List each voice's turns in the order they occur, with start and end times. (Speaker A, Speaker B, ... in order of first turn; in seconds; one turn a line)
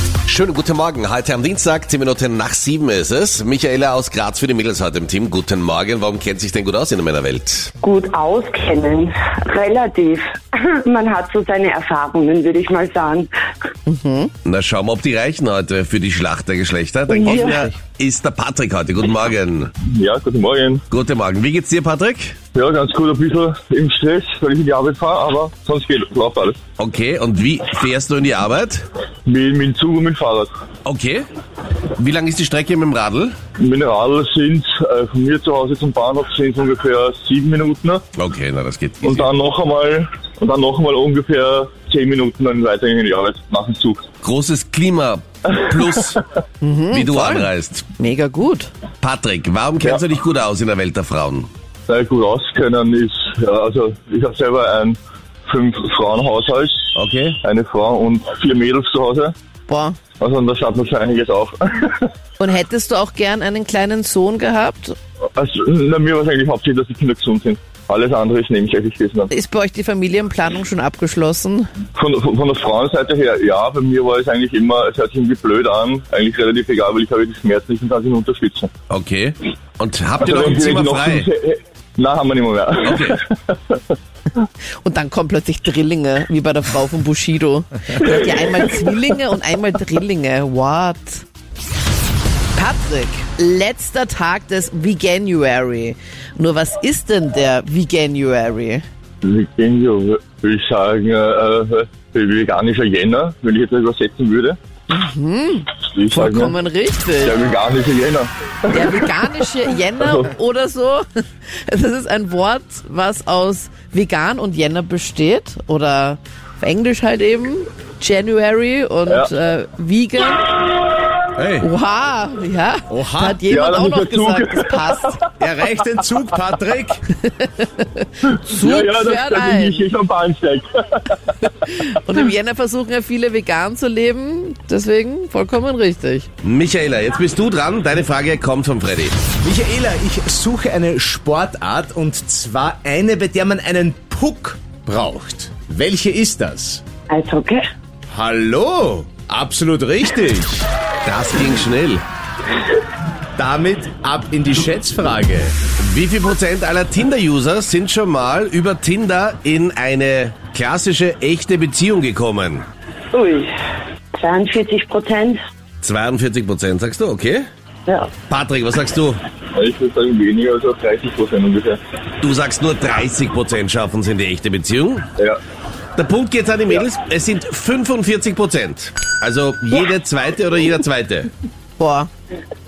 Speaker A: 0.2-7.7
Speaker B: 7.8-13.3
Speaker C: 13.8-14.3
Speaker A: 14.4-19.7
Speaker B: 17.1-17.7
Speaker D: 19.9-20.8
Speaker A: 20.9-22.3
Speaker D: 22.5-26.6
Speaker A: 26.8-28.8
Speaker D: 29.2-30.5
Speaker A: 30.8-31.2
Speaker A: 32.0-33.3
Speaker D: 33.6-38.0
Speaker A: 38.1-39.3
Speaker D: 39.0-44.0
Speaker A: 44.2-46.2
Speaker C: 46.6-48.7
Speaker A: 46.9-47.8
Speaker A: 49.0-51.5
Speaker D: 51.9-56.8
Speaker A: 56.9-57.4
Speaker D: 57.4-59.3
Speaker C: 59.7-60.0
Speaker D: 60.2-62.1
Speaker C: 62.4-65.0
Speaker D: 65.3-69.3
Speaker C: 69.3-71.7
Speaker D: 72.0-78.7
Speaker A: 78.9-81.3
Speaker D: 80.2-83.8
Speaker A: 82.8-83.2
Speaker C: 84.8-91.2
Speaker C: 92.5-98.8
Speaker D: 99.2-104.6
Speaker C: 104.9-107.3
Speaker D: 105.9-106.5
Speaker D: 107.2-109.1
Speaker C: 108.7-120.5
Speaker D: 110.0-110.2
Speaker C: 121.6-125.2
Speaker E: 122.9-123.4
Speaker D: 123.5-125.2
Speaker E: 125.4-127.0
Speaker C: 127.3-129.8
Speaker D: 128.3-131.2
Speaker C: 131.6-136.3
Speaker A: 136.4-139.2
Speaker E: 139.4-146.8
Speaker B: 147.1-147.6
Speaker E: 148.1-150.7
Speaker A: 151.0-152.0
Speaker E: 153.4-155.6
Speaker A: 155.8-162.6
Speaker B: 163.1-163.5
Speaker B: 164.1-165.4
Speaker A: 165.8-167.4
Speaker B: 167.9-168.1
Speaker A: 168.3-169.2
Speaker D: 169.5-171.8
Speaker A: 172.2-175.1
Speaker A: 175.9-181.3
Speaker C: 181.8-182.1